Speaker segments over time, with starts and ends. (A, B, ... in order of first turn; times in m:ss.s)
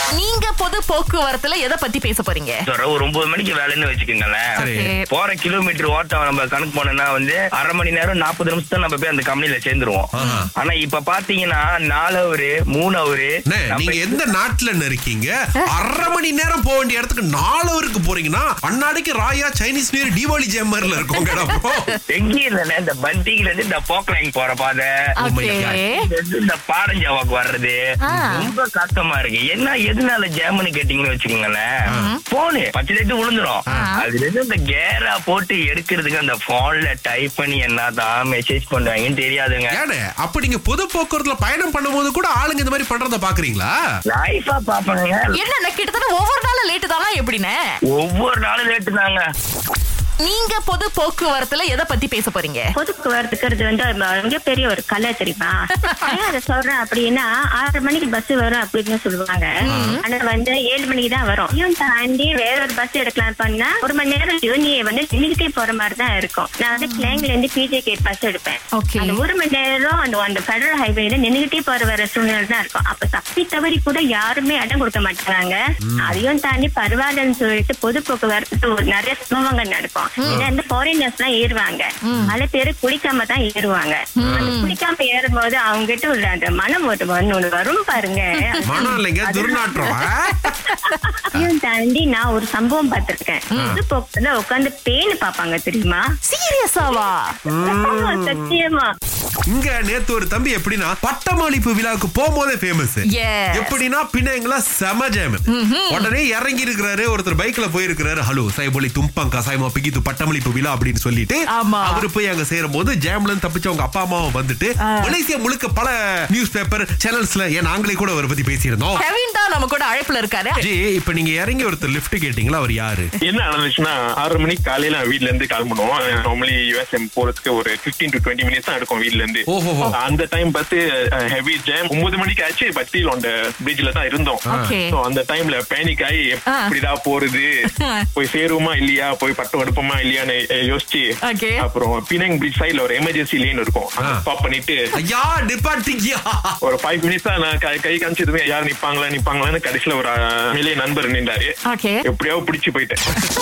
0:00.2-0:02.6 A
0:02.7-0:04.5 B
0:04.6-0:05.0 A
0:04.6-0:04.9 C
0:05.1-0:14.2 B
0:10.1-0:10.5 C
0:10.2-0:10.5 A
0:13.5-0:21.9 C
0:21.1-0:22.0 A
0:22.1-0:24.9 B
0:25.2-0:26.0 A
0:25.2-0:25.8 C
0:25.6-0:27.8 B
0:28.0-0:28.5 A
0:28.3-0:31.7 B
0:31.9-0:32.2 A
0:32.3-0:39.7 B
0:33.7-0:33.9 C
0:33.7-0:34.0 A
0:39.7-0:43.7 C
0:44.1-0:45.4 B
0:45.3-0:47.5 A
0:47.9-0:49.2 B
0:50.2-0:52.6 A
0:52.8-0:59.5 D
0:55.9-0:56.2 A
0:59.7-1:00.0 A
0:59.7-1:00.0 C
1:00.0-1:29.9 D
1:06.8-1:07.2 A
1:08.8-1:09.2 A
1:15.8-1:16.2 C
1:20.2-1:20.5 A
1:20.2-1:20.5 C
1:22.0-1:22.3 A
1:22.1-1:22.4 C
1:24.2-1:24.7 A
1:24.2-1:24.5 C
1:28.6-1:28.9 A
1:28.6-1:30.6 C
1:30.9-1:36.0 D
1:33.5-1:33.8 A
1:36.3-1:37.2 A
1:36.8-1:37.1 D
1:37.5-1:38.6 C
1:37.7-1:38.9 D
1:39.5-1:59.0 C
1:43.1-1:43.8 A
1:45.5-1:46.1 A
1:51.5-1:52.0 A
1:54.8-1:55.2 A
1:59.0-2:00.6 A
2:00.6-2:03.1 C
2:03.2-2:10.8 E
2:09.5-2:09.9 C
2:11.3-2:17.5 E
2:14.5-2:15.0 A
2:17.8-2:18.0 A
2:18.2-2:21.1 E
2:21.3-2:21.6 A
2:21.6-2:24.8 E
2:25.0-2:26.6 C
2:26.6-2:31.5 E
2:31.7-2:32.0 A
2:32.0-2:33.0 E